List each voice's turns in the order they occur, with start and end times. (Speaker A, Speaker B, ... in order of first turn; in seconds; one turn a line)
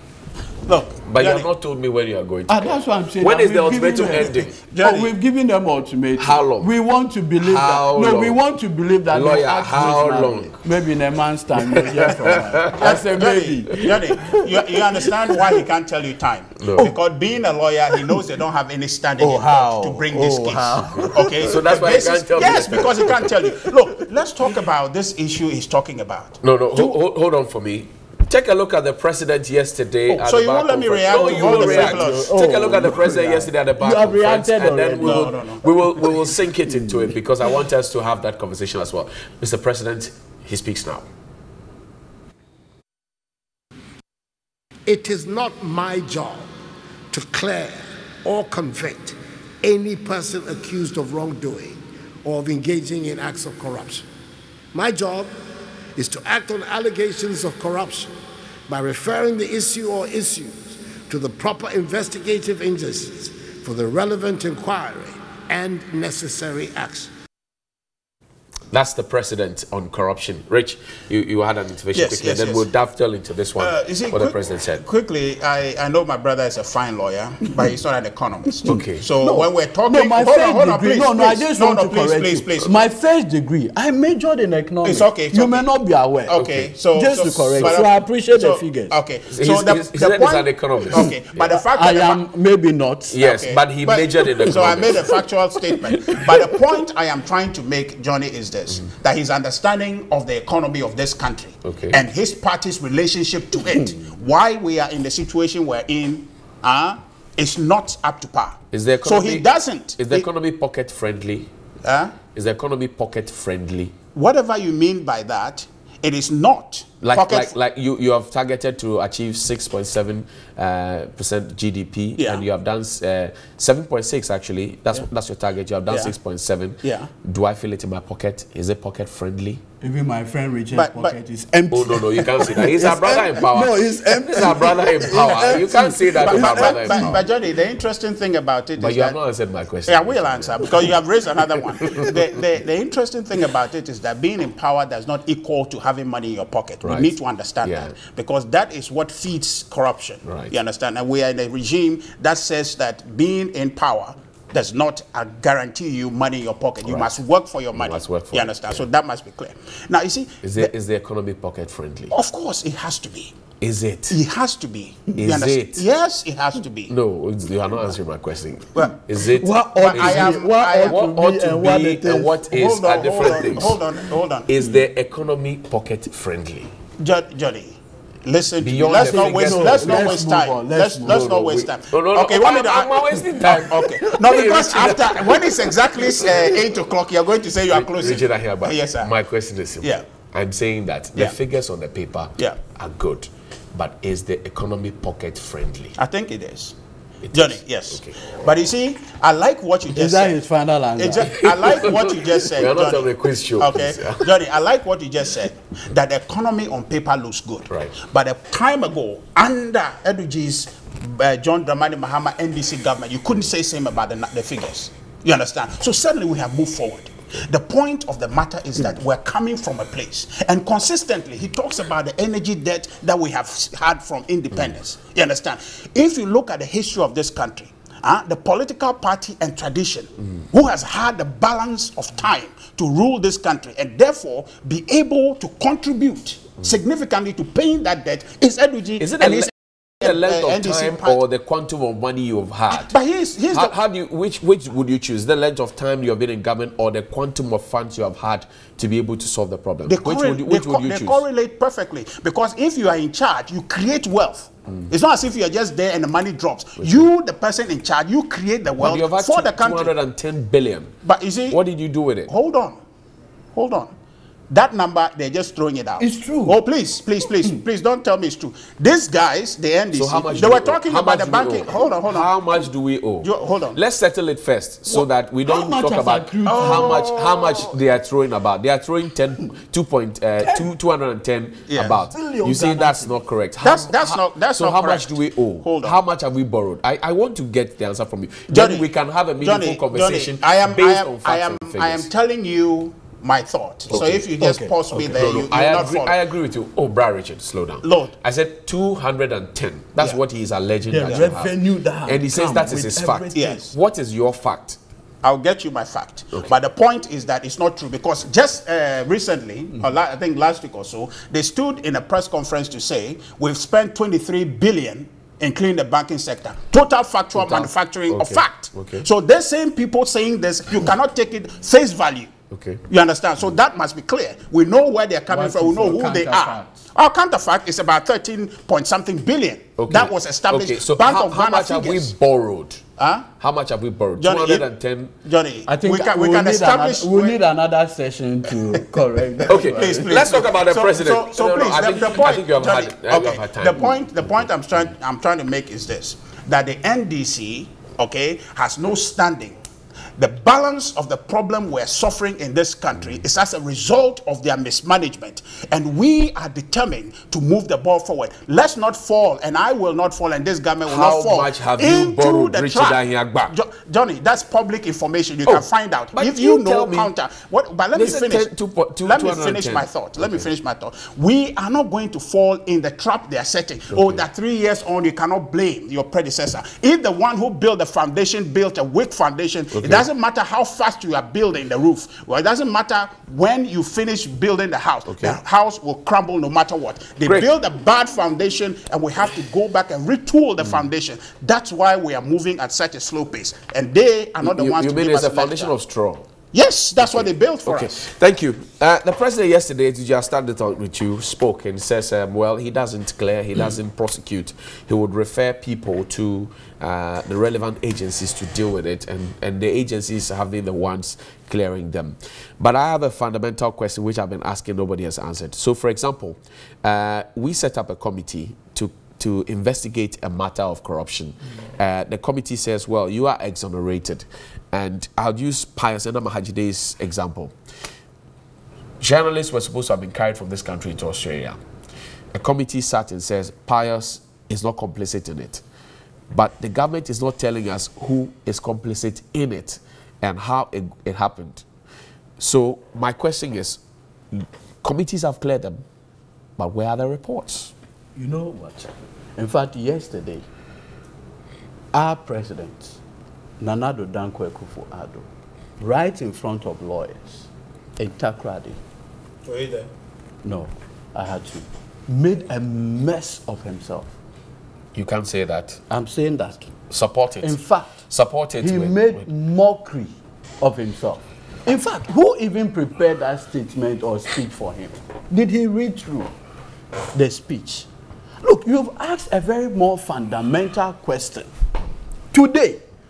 Speaker A: 0.7-1.5
Speaker B: 1.1-4.5
Speaker C: 2.5-15.6
Speaker A: 3.9-5.1
Speaker B: 6.2-6.7
Speaker B: 7.4-8.4
Speaker B: 9.1-10.6
Speaker B: 11.7-12.8
Speaker A: 12.7-26.9
Speaker B: 16.6-16.9
Speaker C: 19.2-21.6
Speaker B: 20.9-23.2
Speaker C: 22.7-23.7
Speaker B: 26.4-41.1
Speaker A: 30.2-32.3
Speaker C: 31.1-35.4
Speaker A: 35.0-35.6
Speaker D: 44.9-46.5
Speaker D: 47.1-54.0
Speaker D: 54.7-55.3
Speaker D: 56.0-58.1
Speaker D: 58.7-67.1
Speaker B: 68.7-74.8
Speaker A: 71.9-72.6
Speaker A: 73.6-82.8
Speaker B: 78.6-79.0
Speaker C: 79.2-88.9
Speaker A: 84.8-85.7
Speaker A: 86.3-92.2
Speaker B: 86.3-86.7
Speaker B: 89.3-91.4
Speaker C: 91.0-93.2
Speaker B: 93.1-95.2
Speaker A: 93.2-110.3
Speaker B: 101.6-102.0
Speaker B: 108.7-109.5
Speaker B: 110.0-111.5
Speaker A: 111.8-112.2
Speaker B: 112.3-113.9
Speaker A: 114.1-117.5
Speaker B: 117.0-129.6
Speaker A: 122.2-122.4
Speaker A: 126.8-127.1
Speaker C: 129.8-137.2
Speaker A: 130.7-131.1
Speaker B: 131.7-137.2
Speaker A: 136.2-139.2
Speaker B: 138.8-140.7
Speaker A: 139.9-160.7
Speaker B: 141.8-142.1
Speaker B: 146.8-147.1
Speaker B: 147.6-147.9
Speaker B: 150.2-150.5
Speaker B: 156.8-157.2
Speaker B: 157.7-158.8
Speaker B: 160.4-162.1
Speaker A: 162.1-163.4
Speaker B: 163.6-164.2
Speaker A: 164.1-166.9
Speaker B: 165.2-165.8
Speaker B: 166.9-173.8
Speaker C: 169.3-172.4
Speaker A: 169.7-171.1
Speaker A: 172.5-174.6
Speaker B: 174.5-176.7
Speaker A: 177.0-189.1
Speaker B: 178.6-180.2
Speaker C: 179.0-181.3
Speaker B: 181.0-186.5
Speaker B: 187.7-195.9
Speaker A: 196.0-196.8
Speaker B: 197.2-198.5
Speaker A: 197.3-200.3
Speaker C: 199.9-201.4
Speaker A: 201.0-241.2
Speaker B: 201.3-204.2
Speaker B: 207.7-207.9
Speaker B: 239.0-242.9
Speaker A: 242.7-243.7
Speaker B: 243.5-251.2
Speaker A: 249.9-259.9
Speaker B: 256.8-257.0
Speaker B: 258.8-260.9
Speaker A: 261.0-261.6
Speaker B: 261.5-262.3
Speaker A: 262.3-262.8
Speaker A: 263.5-263.9
Speaker A: 264.5-272.3
Speaker C: 266.0-266.6
Speaker B: 269.9-292.1
Speaker A: 273.2-273.8
Speaker C: 275.4-277.0
Speaker A: 276.4-277.7
Speaker A: 281.7-282.0
Speaker C: 282.1-283.1
Speaker A: 283.6-285.9
Speaker A: 288.5-288.9
Speaker A: 289.4-296.2
Speaker B: 293.9-294.2
Speaker C: 294.4-295.2
Speaker B: 295.1-301.5
Speaker A: 297.8-298.1
Speaker C: 300.9-303.6
Speaker B: 302.0-304.8
Speaker A: 303.3-303.7
Speaker A: 305.2-322.3
Speaker B: 317.4-319.1
Speaker B: 322.5-322.8
Speaker A: 322.9-332.1
Speaker C: 325.3-326.8
Speaker B: 329.8-332.8
Speaker A: 333.0-333.3
Speaker B: 333.4-335.1
Speaker A: 334.2-334.7
Speaker A: 335.2-337.4
Speaker C: 335.7-340.2
Speaker A: 339.4-349.6
Speaker B: 339.5-344.1
Speaker A: 350.2-363.0
Speaker B: 360.9-363.5
Speaker A: 363.5-368.5
Speaker B: 365.5-367.1
Speaker B: 367.9-370.4
Speaker A: 369.0-395.7
Speaker B: 373.9-374.2
Speaker B: 379.7-380.1
Speaker B: 385.1-385.4
Speaker B: 394.4-396.3
Speaker A: 396.5-398.1
Speaker B: 397.0-427.5
Speaker B: 429.0-431.6
Speaker B: 432.3-435.6
Speaker B: 436.3-441.6
Speaker B: 442.4-443.8
Speaker B: 444.3-445.8
Speaker B: 446.6-447.7
Speaker C: 448.1-450.4
Speaker C: 451.9-453.0
Speaker C: 453.6-455.3
Speaker C: 455.8-458.8
Speaker A: 459.4-459.9
Speaker C: 460.4-464.1
Speaker B: 464.9-465.8
Speaker C: 465.9-466.7
Speaker B: 466.9-469.2
Speaker C: 467.4-468.0
Speaker C: 468.6-476.3
Speaker C: 477.1-477.9
Speaker C: 478.4-481.5
Speaker C: 482.3-482.8